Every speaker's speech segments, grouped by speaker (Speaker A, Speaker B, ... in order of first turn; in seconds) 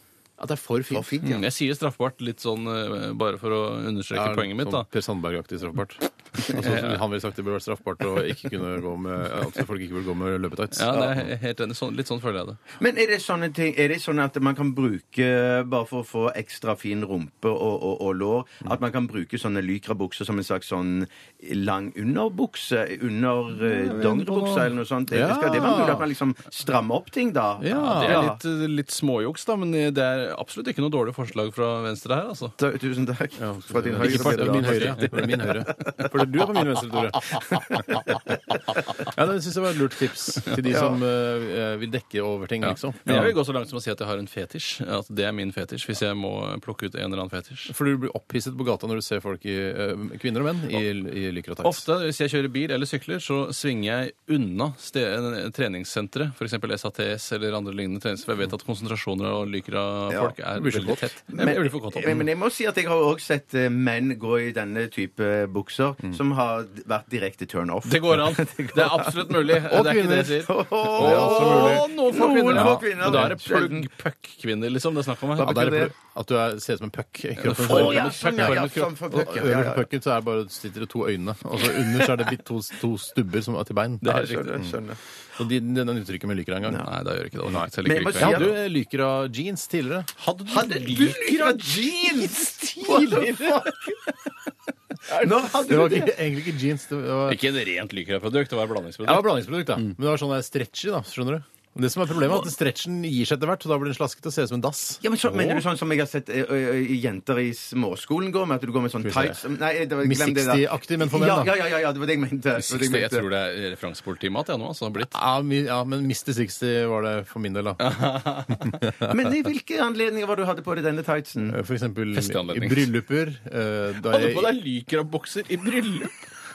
Speaker A: 0.4-1.1, 4.1-11.3, 23.7-26.1, 27.6-28.3, 33.4-38.1, 39.0-43.4, 47.7-51.9, 60.6-61.1, 69.6-71.9, 72.5-73.4, 75.4-84.8, 85.4-86.9, 87.5-90.1, 92.9-93.3, 95.4-97.4, 99.0-105.7, 109.0-109.4, 110.0-111.5, 115.1-118.0, 118.5-119.2, 121.5-124.5
Speaker B: 0.9-1.4, 12.8-28.4, 32.6-36.1, 37.4-37.9, 40.7-41.0, 60.1-60.4, 61.3-69.5, 70.3-73.9, 75.4-75.9, 77.6-79.9, 84.0-85.0, 87.8-88.6, 90.5-94.0, 95.1-96.2, 105.0-113.3, 119.0-121.6
Speaker C: 1.2-4.9, 6.4-7.0, 10.7-12.6, 27.7-32.5, 34.0-35.3, 42.6-47.7, 51.6-62.2, 67.8-75.8, 77.4-78.9, 84.0-84.5, 86.8-88.5, 90.2-93.7, 97.3-99.3, 112.6-115.2, 117.8-118.8, 122.1-122.9, 124.0-126.2